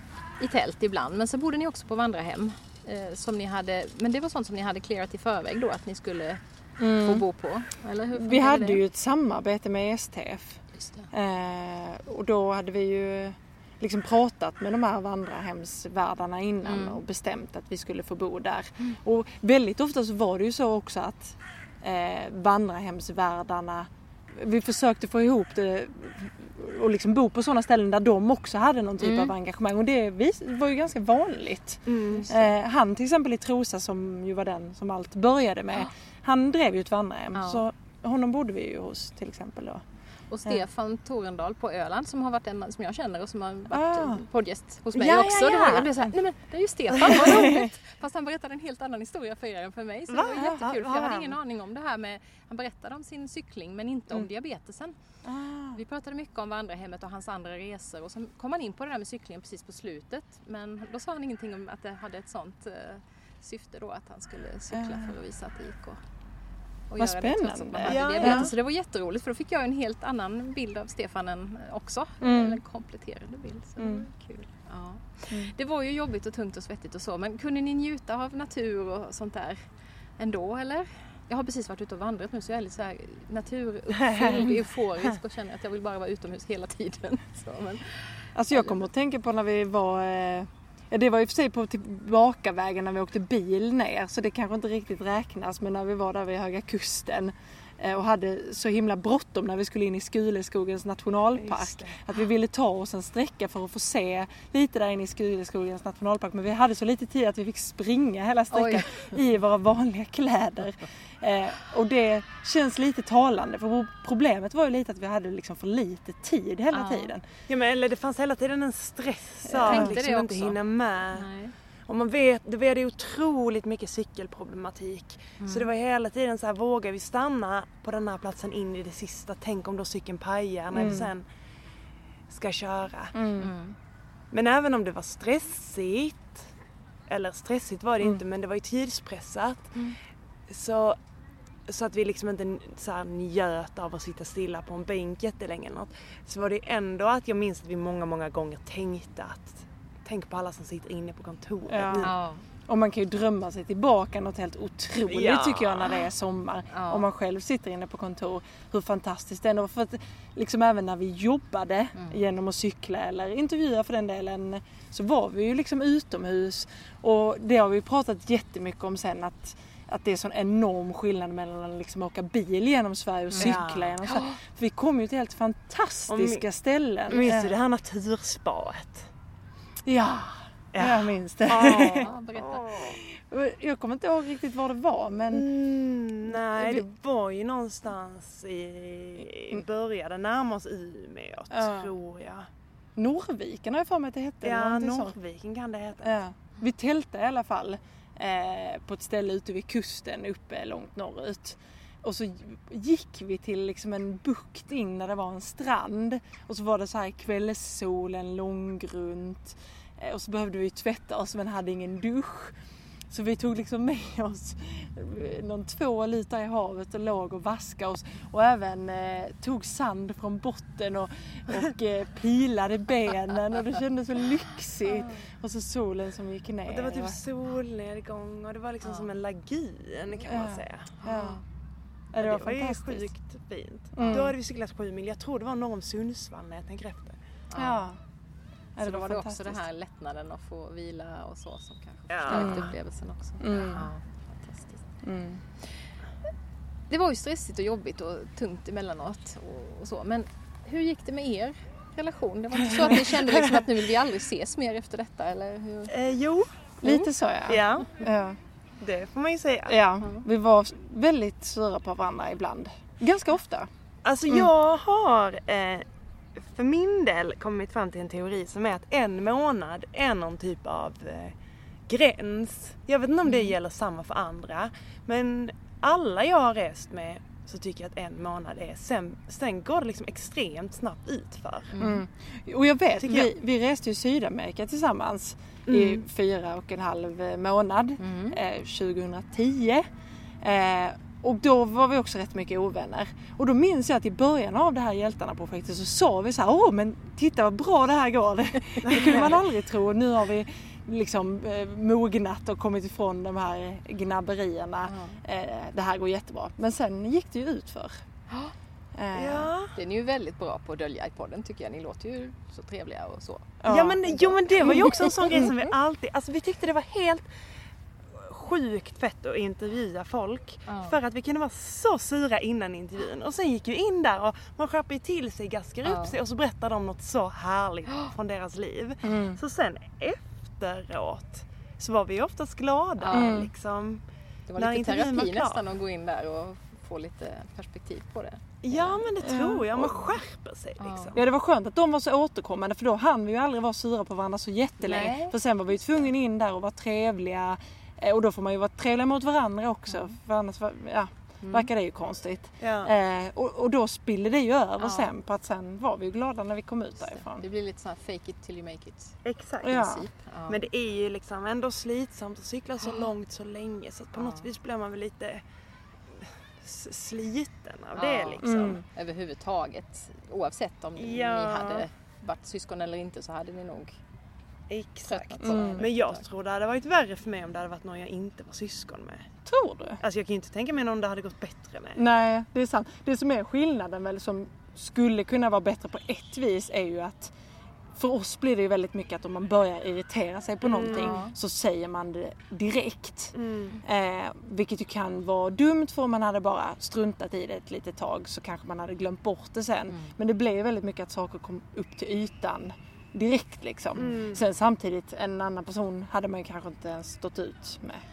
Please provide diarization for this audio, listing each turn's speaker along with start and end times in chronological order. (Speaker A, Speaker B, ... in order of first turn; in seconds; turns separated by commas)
Speaker A: 0.4-8.8, Speaker B: 6.8-7.2, Speaker B: 8.1-10.6, Speaker A: 10.8-11.1, Speaker B: 11.1-39.8, Speaker A: 16.6-17.0, Speaker A: 29.0-29.3, Speaker C: 31.9-32.3, Speaker A: 37.3-37.6, Speaker A: 40.3-55.0, Speaker B: 43.7-44.3, Speaker C: 44.9-46.1, Speaker B: 47.0-47.7, Speaker C: 50.1-51.4, Speaker B: 55.2-55.8, Speaker A: 55.7-66.0, Speaker B: 64.7-65.1, Speaker A: 66.9-79.6, Speaker B: 67.0-68.5, Speaker C: 67.8-68.5, Speaker B: 72.2-72.6, Speaker B: 73.8-74.1, Speaker A: 80.2-88.8, Speaker C: 83.9-84.6, Speaker B: 88.3-117.2, Speaker C: 101.4-102.0, Speaker A: 108.5-109.1, Speaker A: 116.7-117.1, Speaker C: 117.5-121.3, Speaker A: 119.6-120.6, Speaker B: 119.6-120.0, Speaker A: 121.1-121.5, Speaker C: 121.8-131.2, Speaker A: 125.4-125.7, Speaker B: 130.7-131.1, Speaker C: 132.3-133.2, Speaker B: 133.1-133.5, Speaker A: 133.4-133.7, Speaker C: 134.3-136.4, Speaker C: 137.1-139.8, Speaker C: 140.5-141.0, Speaker C: 141.7-152.2, Speaker B: 151.7-152.1, Speaker A: 152.0-152.4, Speaker B: 152.6-177.5, Speaker C: 155.1-156.1, Speaker A: 156.7-157.1, Speaker C: 173.4-174.0, Speaker A: 173.4-174.3, Speaker C: 176.1-176.4, Speaker C: 177.1-179.1, Speaker B: 179.8-182.1, Speaker C: 180.7-183.0, Speaker A: 181.6-182.7, Speaker B: 182.8-185.5, Speaker C: 185.3-192.5, Speaker B: 186.3-186.8, Speaker B: 191.5-191.9, Speaker B: 192.9-195.1, Speaker C: 194.4-196.1, Speaker B: 196.0-212.6, Speaker B: 213.1-227.2, Speaker C: 226.7-231.0, Speaker A: 228.8-229.1, Speaker B: 230.2-231.4, Speaker B: 232.1-233.1, Speaker C: 232.2-237.2, Speaker B: 233.9-234.3, Speaker A: 237.5-237.9, Speaker B: 237.5-238.0, Speaker B: 238.8-239.6, Speaker A: 238.8-244.8, Speaker C: 242.1-242.7, Speaker B: 242.3-242.8, Speaker B: 243.4-243.9, Speaker B: 245.0-245.4, Speaker A: 246.9-255.9, Speaker C: 255.9-256.5, Speaker B: 256.8-258.4, Speaker A: 256.8-257.1, Speaker C: 257.4-258.0, Speaker C: 258.8-259.8, Speaker B: 259.7-263.7, Speaker C: 264.0-265.8, Speaker C: 266.4-271.3, Speaker C: 271.9-281.8, Speaker A: 273.2-273.5, Speaker B: 281.8-289.9, Speaker C: 282.9-283.3, Speaker C: 285.7-286.0, Speaker A: 288.0-288.4, Speaker B: 290.4-308.0, Speaker C: 298.8-299.4, Speaker A: 304.9-305.2, Speaker B: 308.9-309.5, Speaker C: 309.1-309.7, Speaker A: 309.7-315.3, Speaker B: 313.6-314.0, Speaker C: 313.6-317.2, Speaker B: 314.6-315.5, Speaker C: 318.1-334.0, Speaker A: 320.7-321.0, Speaker A: 325.8-326.1, Speaker B: 329.0-329.4, Speaker A: 333.0-333.4, Speaker B: 333.1-333.5, Speaker A: 334.5-339.0, Speaker C: 334.6-335.6, Speaker C: 338.6-341.2, Speaker B: 339.2-340.1, Speaker A: 340.8-341.1, Speaker B: 341.1-357.4, Speaker A: 344.8-345.4, Speaker A: 349.9-350.1, Speaker A: 351.4-351.7, Speaker C: 352.6-352.9, Speaker A: 354.8-355.1, Speaker A: 357.1-360.6, Speaker C: 359.2-359.9, Speaker B: 359.6-360.1, Speaker C: 360.5-365.4, Speaker A: 364.1-364.5, Speaker C: 366.1-368.8, Speaker A: 367.9-374.0, Speaker B: 368.4-368.8, Speaker C: 371.0-371.9, Speaker C: 374.7-379.3, Speaker A: 375.1-376.3, Speaker B: 375.4-375.9, Speaker B: 379.4-380.0, Speaker C: 380.0-382.0, Speaker B: 381.9-387.3, Speaker B: 387.9-408.0, Speaker C: 390.6-391.2, Speaker A: 390.9-391.3, Speaker C: 393.3-393.8, Speaker A: 399.9-400.1, Speaker C: 403.9-404.4